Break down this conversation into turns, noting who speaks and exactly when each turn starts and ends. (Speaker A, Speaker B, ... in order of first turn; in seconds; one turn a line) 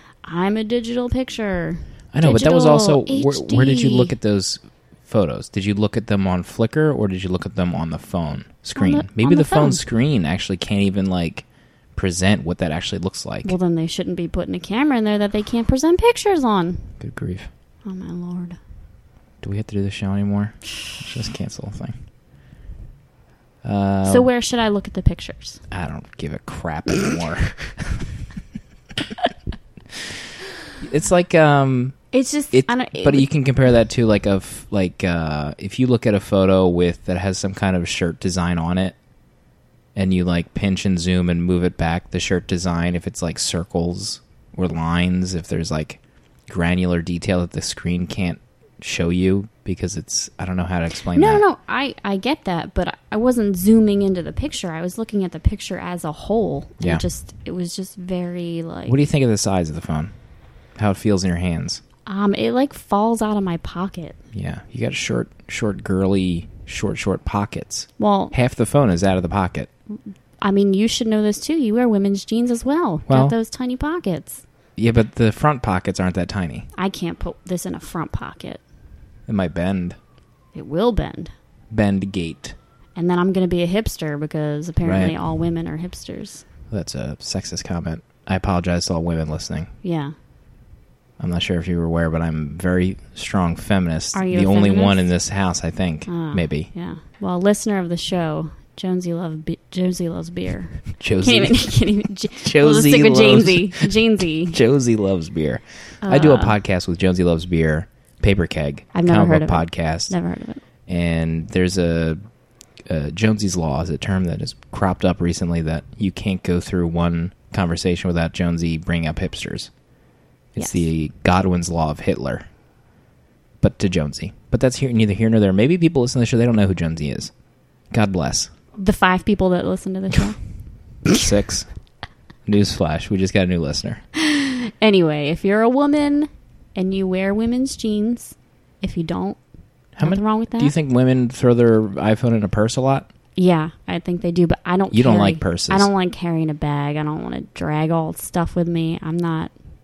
Speaker A: 0.2-4.1
Speaker B: 2.1-13.6
Speaker A: 8.8-9.8
Speaker A: 13.4-16.9
Speaker B: 17.0-17.5
Speaker A: 17.8-18.6
Speaker B: 19.4-21.9
Speaker B: 23.6-24.3
Speaker A: 24.0-25.6
Speaker B: 25.7-28.2
Speaker B: 30.8-32.0
Speaker A: 32.1-33.3
Speaker B: 32.5-39.0
Speaker B: 40.0-51.4
Speaker A: 51.1-59.0
Speaker B: 58.9-60.1
Speaker B: 60.8-61.8
Speaker A: 62.0-64.2
Speaker B: 64.3-69.7
Speaker A: 68.0-68.3
Speaker A: 70.4-74.4
Speaker B: 73.1-73.3
Speaker B: 74.8-76.7
Speaker A: 76.7-78.6
Speaker B: 79.3-80.0
Speaker A: 80.5-81.3
Speaker B: 81.7-82.5
Speaker A: 83.0-86.4
Speaker B: 84.8-85.2
Speaker B: 86.7-89.7
Speaker A: 89.8-90.1
Speaker B: 91.2-96.7
Speaker A: 94.1-95.1
Speaker A: 96.1-104.6
Speaker B: 101.0-101.7
Speaker B: 102.4-110.1
Speaker A: 106.0-106.5
Speaker A: 108.9-110.6
Speaker B: 110.9-112.2
Speaker B: 112.9-119.7
Speaker B: 120.5-122.5
Speaker A: 120.6-120.8
Speaker B: 123.6-127.3
Speaker B: 127.9-128.5
Speaker A: 128.8-130.4
Speaker B: 131.1-131.7
Speaker B: 132.4-134.0
Speaker A: 134.2-139.4
Speaker B: 139.9-143.1
Speaker A: 140.0-140.7
Speaker A: 143.3-149.5
Speaker B: 144.9-145.9